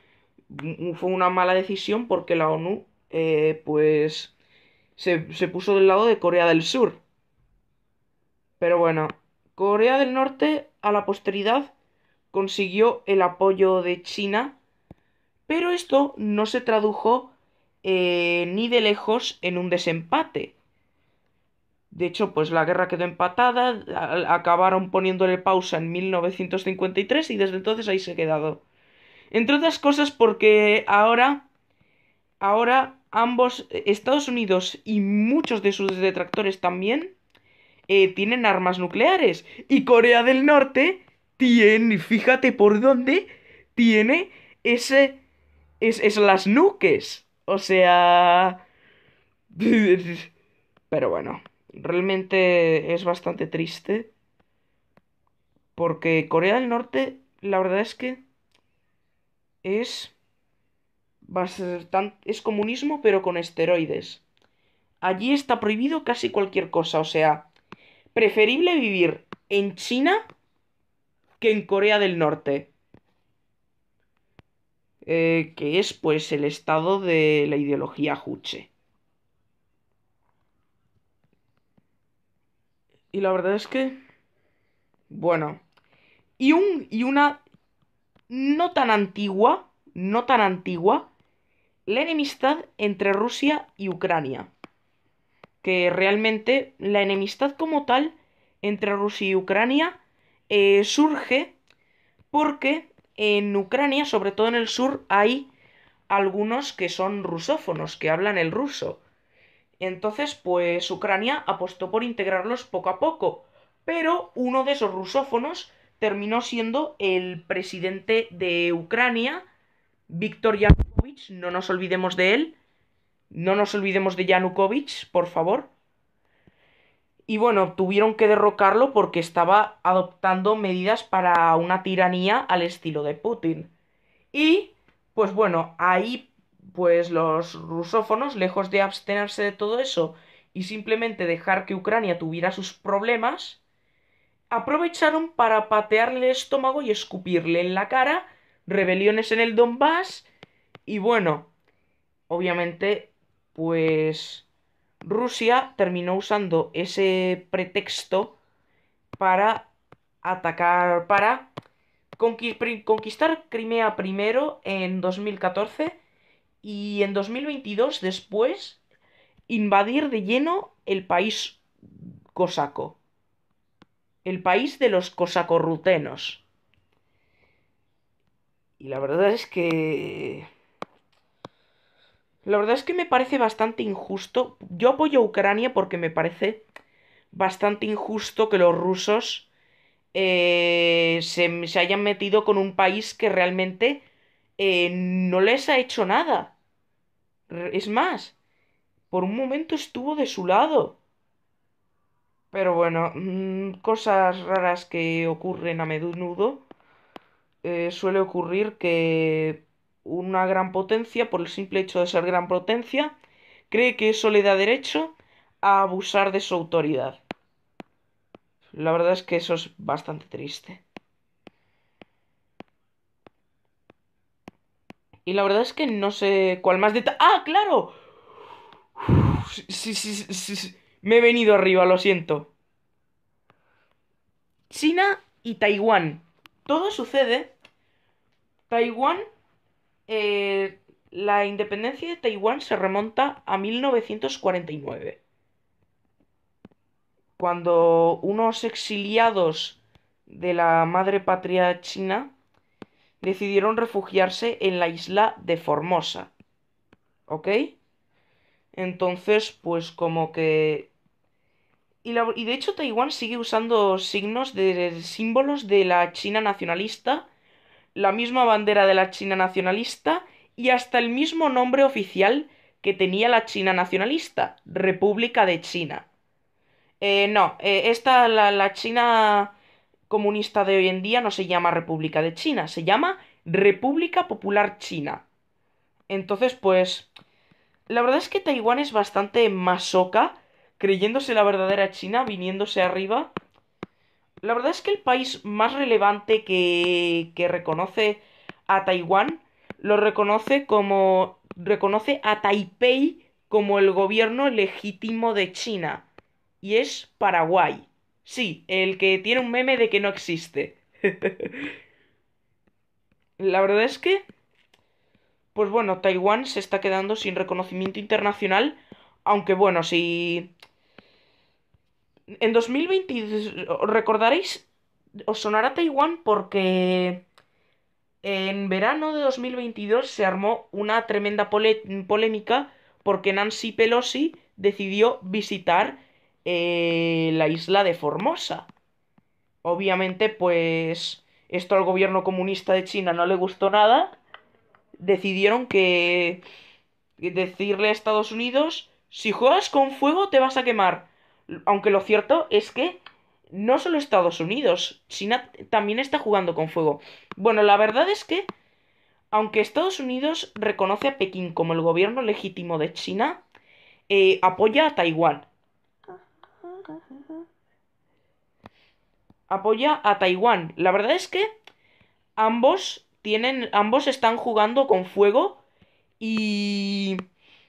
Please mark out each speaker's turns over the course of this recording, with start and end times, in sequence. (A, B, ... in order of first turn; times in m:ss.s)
0:00.5-0:04.3 A
0:05.0-0:07.0 A
0:08.6-0:11.7 A
0:12.3-0:14.6 A
0:15.5-0:20.5 A
0:21.9-0:28.6 A
0:29.3-0:31.4 A
0:32.4-0:37.1 A
0:37.9-0:45.2 A
0:45.8-0:48.6 A
0:49.5-0:50.3 A
0:50.9-0:54.1 A
0:55.8-0:58.2 A
0:59.6-1:00.1 A
1:01.2-1:04.2 A
1:05.0-1:07.5 A
1:08.1-1:10.2 A
1:11.4-1:12.7 A
1:15.0-1:18.7 A
1:23.1-1:24.0 A
1:25.1-1:25.6 A
1:26.4-1:27.4 A
1:28.3-1:31.1 A
1:31.8-1:34.5 A
1:35.6-1:40.0 A
1:40.5-1:41.5 A
1:42.3-1:45.5 A
1:46.1-1:49.0 A
1:49.8-1:59.4 A
2:00.1-2:02.6 A
2:03.3-2:05.7 A
2:07.3-2:13.7 A
2:14.3-2:23.6 A
2:24.5-2:30.3 A
2:30.9-2:31.5 A
2:32.3-2:34.4 A
2:35.0-2:38.4 A
2:39.2-2:39.7 A
2:40.2-2:41.5 A
2:42.2-2:46.0 A
2:46.6-2:48.8 A
2:49.5-2:53.0 A
2:54.2-2:56.4 A
2:58.8-3:00.5 A
3:02.4-3:06.6 A
3:07.3-3:09.5 A
3:10.1-3:14.0 A
3:14.6-3:16.5 A
3:17.5-3:18.4 A
3:19.1-3:21.0 A
3:22.5-3:26.6 A
3:27.6-3:33.1 A
3:33.7-3:37.2 A
3:38.7-3:40.8 A
3:45.2-3:47.9 A
3:49.0-3:52.5 A
3:54.7-3:57.5 A
3:58.7-3:59.2 A
4:00.1-4:05.2 A
4:07.4-4:12.3 A
4:13.2-4:16.3 A
4:17.3-4:17.7 A
4:18.7-4:20.9 A
4:22.0-4:27.3 A
4:27.9-4:36.1 A
4:37.0-4:39.5 A
4:40.1-4:45.2 A
4:46.1-4:47.1 A
4:47.9-4:53.3 A
4:54.4-5:06.1 A
5:06.6-5:11.6 A
5:13.4-5:14.2 A
5:15.5-5:20.5 A
5:22.4-5:24.7 A
5:25.3-5:27.2 A
5:28.2-5:38.7 A
5:39.6-5:44.2 A
5:45.0-5:46.4 A
5:47.2-5:58.5 A
5:59.3-6:03.4 A
6:04.1-6:05.5 A
6:09.5-6:11.5 A
6:12.4-6:15.6 A
6:16.2-6:17.2 A